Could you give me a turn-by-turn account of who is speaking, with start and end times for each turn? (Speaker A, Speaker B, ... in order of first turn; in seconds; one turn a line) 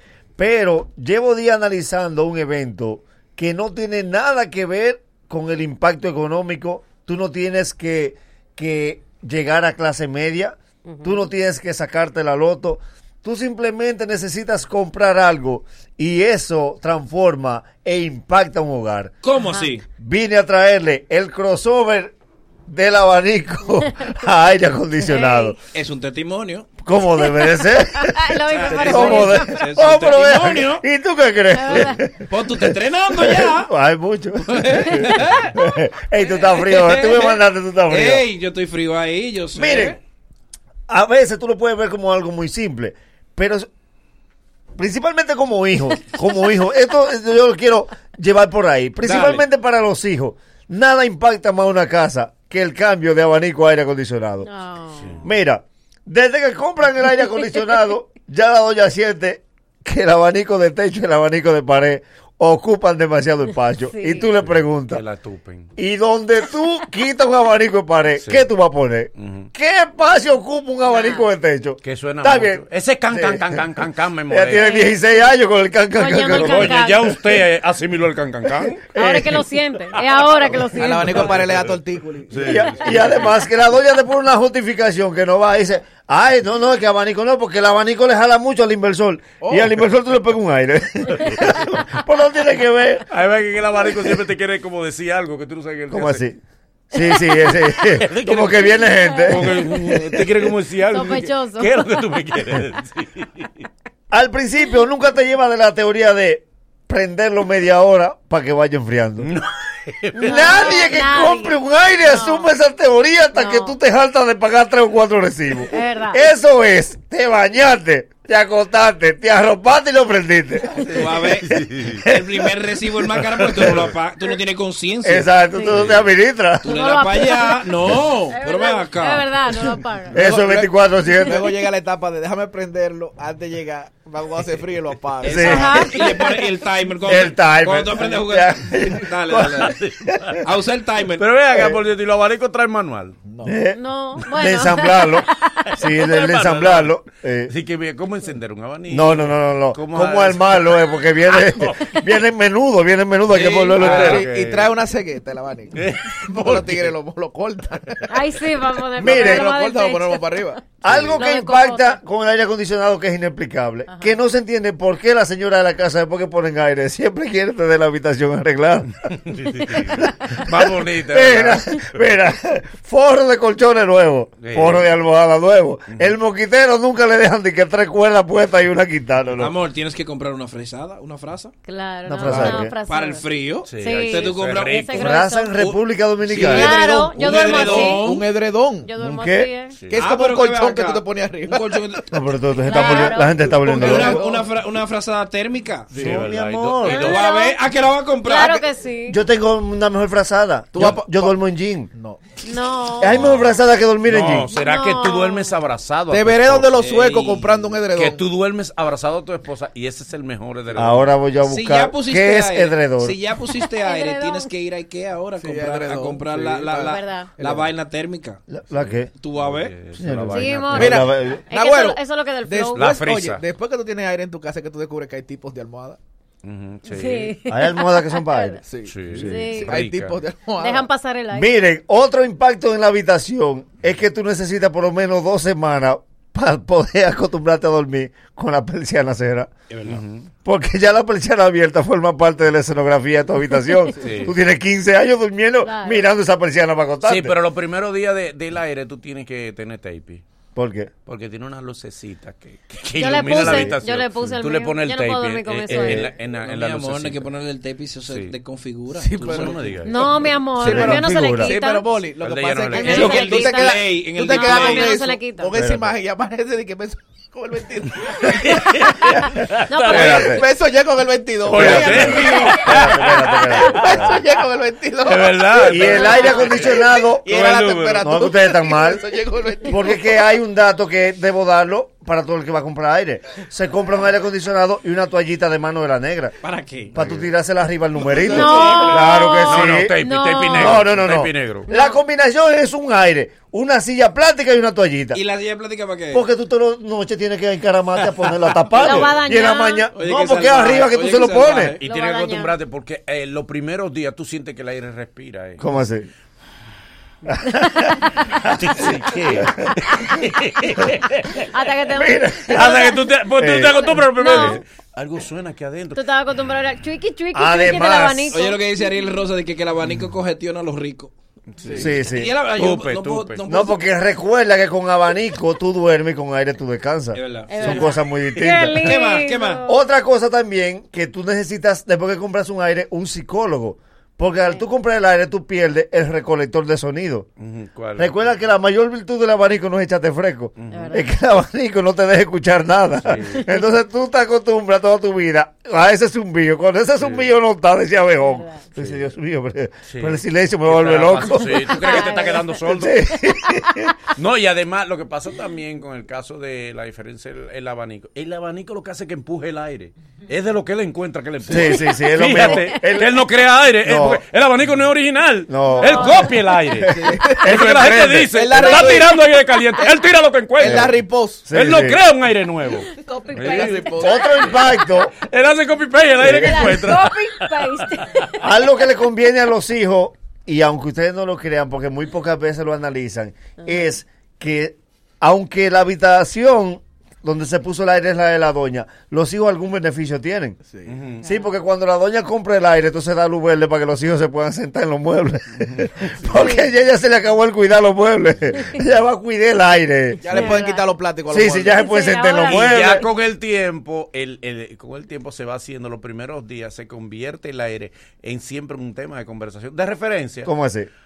Speaker A: 0.4-19.1
Speaker B: 10.9-11.2
Speaker C: 19.2-19.8
Speaker A: 20.0-22.1
Speaker A: 22.7-25.6
Speaker B: 25.1-25.5
Speaker C: 25.7-26.8
Speaker A: 26.8-38.2
Speaker B: 27.6-29.6
Speaker C: 28.5-30.8
Speaker B: 31.5-32.0
Speaker C: 32.2-33.7
Speaker C: 34.5-35.5
Speaker C: 36.4-40.0
Speaker A: 39.5-40.0
Speaker A: 40.9-43.7
Speaker A: 44.8-54.5
Speaker C: 49.0-49.4
Speaker B: 54.4-55.1
Speaker D: 54.9-55.3
Speaker A: 55.2-65.0
Speaker B: 63.9-64.3
Speaker D: 64.4-65.7
Speaker A: 65.8-73.6
Speaker D: 68.2-68.5
Speaker D: 69.2-69.5
Speaker B: 70.9-71.2
Speaker D: 71.8-74.8
Speaker A: 74.3-76.8
Speaker B: 74.6-75.2
Speaker B: 76.0-77.1
Speaker D: 76.3-78.8
Speaker A: 78.7-79.4
Speaker B: 79.0-81.4
Speaker E: 80.7-83.1
Speaker D: 81.1-81.7
Speaker D: 82.3-82.7
Speaker A: 82.4-93.0
Speaker E: 89.4-89.7
Speaker D: 93.1-96.2
Speaker A: 95.9-96.4
Speaker A: 96.9-100.2
Speaker D: 97.9-103.5
Speaker B: 100.9-101.9
Speaker A: 104.1-109.3
Speaker D: 109.2-110.8
Speaker A: 110.1-120.9
Speaker B: 110.2-112.5
Speaker B: 113.3-113.8
Speaker B: 115.7-116.2
Speaker D: 120.8-122.0
Speaker C: 120.9-125.3
Speaker D: 123.4-123.8
Speaker A: 125.0-126.7
Speaker B: 125.5-125.8
Speaker D: 125.7-126.1
Speaker C: 126.6-129.3
Speaker B: 126.7-127.7
Speaker B: 128.3-130.2
Speaker A: 130.1-131.4
Speaker E: 130.1-130.7
Speaker E: 131.2-136.0
Speaker C: 135.2-139.7
Speaker A: 135.2-135.8
Speaker B: 135.5-136.2
Speaker A: 137.1-139.6
Speaker D: 139.4-140.4
Speaker C: 140.4-141.2
Speaker D: 141.2-143.2
Speaker E: 143.2-143.5
Speaker A: 143.4-147.5
Speaker B: 143.7-145.2
Speaker D: 146.0-151.8
Speaker A: 148.9-154.3
Speaker E: 153.5-158.1
Speaker D: 153.8-154.7
Speaker D: 155.7-156.9
Speaker B: 158.1-160.2
Speaker E: 158.9-161.0
Speaker A: 159.0-159.4
Speaker A: 160.8-168.9
Speaker B: 161.2-162.0
Speaker D: 169.1-172.0
Speaker A: 169.9-179.5
Speaker D: 174.4-174.9
Speaker D: 175.9-176.1
Speaker C: 179.4-181.5
Speaker B: 181.6-183.2
Speaker A: 182.1-182.7
Speaker C: 182.3-184.9
Speaker D: 183.7-185.1
Speaker B: 183.8-185.7
Speaker A: 184.9-186.8
Speaker C: 186.3-188.2
Speaker B: 186.3-188.1
Speaker E: 186.4-188.9
Speaker B: 188.8-189.7
Speaker A: 189.0-189.5
Speaker D: 189.8-190.0
Speaker E: 189.9-191.8
Speaker C: 190.0-192.1
Speaker A: 192.1-194.2
Speaker B: 192.7-193.6
Speaker C: 193.6-195.9
Speaker E: 193.7-194.4
Speaker A: 195.9-197.1
Speaker D: 195.9-197.3
Speaker B: 196.9-197.6
Speaker C: 196.9-198.6
Speaker B: 198.2-199.2
Speaker A: 199.1-201.9
Speaker E: 200.7-201.3
Speaker E: 201.9-202.2
Speaker B: 202.4-203.3
Speaker A: 203.0-204.5
Speaker D: 203.1-203.6
Speaker D: 204.1-206.8
Speaker B: 204.5-205.5
Speaker E: 206.1-208.2
Speaker C: 206.8-207.7
Speaker D: 207.9-211.1
Speaker A: 210.8-213.2
Speaker C: 211.4-218.4
Speaker B: 213.8-214.5
Speaker E: 215.4-217.7
Speaker B: 216.8-217.3
Speaker A: 218.5-219.1
Speaker D: 218.7-221.0
Speaker C: 219.2-219.8
Speaker A: 219.9-221.4
Speaker B: 220.3-222.9
Speaker E: 220.8-226.0
Speaker D: 222.7-223.4
Speaker D: 226.4-227.4
Speaker B: 226.9-228.6
Speaker A: 227.5-229.6
Speaker E: 228.7-229.0
Speaker D: 228.9-230.2
Speaker B: 229.2-229.8
Speaker E: 229.6-230.9
Speaker B: 230.6-231.5
Speaker A: 231.3-239.5
Speaker D: 239.7-240.3
Speaker A: 240.4-247.3
Speaker D: 244.0-244.3
Speaker B: 245.6-246.0
Speaker D: 247.0-250.2
Speaker A: 250.5-250.9
Speaker D: 251.1-257.3
Speaker B: 253.0-256.1
Speaker A: 253.3-253.7
Speaker C: 255.7-259.8
Speaker D: 258.1-258.3
Speaker E: 259.1-259.8
Speaker D: 259.2-260.3
Speaker B: 259.9-261.9
Speaker E: 260.6-268.6
Speaker A: 260.6-261.5
Speaker D: 262.2-263.4
Speaker B: 262.7-265.5
Speaker C: 262.8-265.0
Speaker A: 265.5-265.9
Speaker D: 268.3-270.4
Speaker B: 269.7-270.3
Speaker A: 269.9-270.4
Speaker E: 269.9-272.7
Speaker D: 271.4-274.1
Speaker A: 271.5-274.1
Speaker E: 273.6-280.0
Speaker D: 275.0-276.8
Speaker A: 275.6-277.4
Speaker B: 276.0-276.4
Speaker D: 277.3-278.1
Speaker A: 278.0-279.0
Speaker A: 279.6-286.3
Speaker C: 286.4-286.9
Speaker A: 286.9-289.9
Speaker D: 286.9-287.3
Speaker E: 288.0-289.0
Speaker B: 288.3-290.9
Speaker D: 289.4-291.7
Speaker A: 290.5-295.2
Speaker B: 291.7-292.0
Speaker C: 295.1-296.2
Speaker A: 296.1-301.8
Speaker B: 298.8-299.9
Speaker C: 299.9-301.8
Speaker D: 301.8-305.6
Speaker B: 301.8-302.5
Speaker A: 305.6-306.1
Speaker A: 307.3-309.7
Speaker D: 308.5-311.4
Speaker B: 311.5-313.0
Speaker A: 311.9-312.9
Speaker D: 312.5-316.0
Speaker A: 313.4-314.6
Speaker B: 313.8-314.6
Speaker B: 315.9-318.6
Speaker A: 317.3-318.4
Speaker C: 318.3-321.1
Speaker D: 321.6-321.9
Speaker E: 321.6-321.9
Speaker A: 321.8-322.3
Speaker C: 322.0-323.8
Speaker D: 322.6-323.4
Speaker A: 323.5-329.0
Speaker C: 327.1-327.8
Speaker B: 327.5-329.7
Speaker C: 328.8-329.6
Speaker A: 329.6-337.3
Speaker D: 337.4-338.4
Speaker A: 338.0-352.1
Speaker D: 340.6-341.0
Speaker B: 340.7-341.0
Speaker D: 343.0-343.4
Speaker D: 347.0-347.3
Speaker B: 348.2-348.6
Speaker D: 348.8-349.1
Speaker D: 349.9-353.0
Speaker B: 351.7-352.6
Speaker A: 352.7-353.9
Speaker D: 354.2-370.9
Speaker A: 361.5-363.2
Speaker A: 363.8-364.2
Speaker A: 365.5-366.3
Speaker B: 365.7-366.3
Speaker E: 366.9-367.6
Speaker A: 367.4-368.6
Speaker E: 368.3-369.2
Speaker B: 368.7-369.0
Speaker E: 370.6-371.4
Speaker A: 370.6-370.9
Speaker A: 371.5-372.0
Speaker D: 371.5-373.9
Speaker B: 373.0-373.8
Speaker E: 373.3-374.2
Speaker A: 374.0-375.1
Speaker D: 375.2-378.1
Speaker A: 376.2-376.9
Speaker B: 376.4-378.3
Speaker A: 378.4-390.6
Speaker E: 390.6-390.9
Speaker D: 390.9-391.2
Speaker A: 391.2-400.5
Speaker B: 396.3-396.7
Speaker E: 400.2-401.8
Speaker B: 400.3-400.9
Speaker A: 401.3-403.0
Speaker B: 401.8-402.9
Speaker D: 402.4-410.5
Speaker A: 410.4-410.9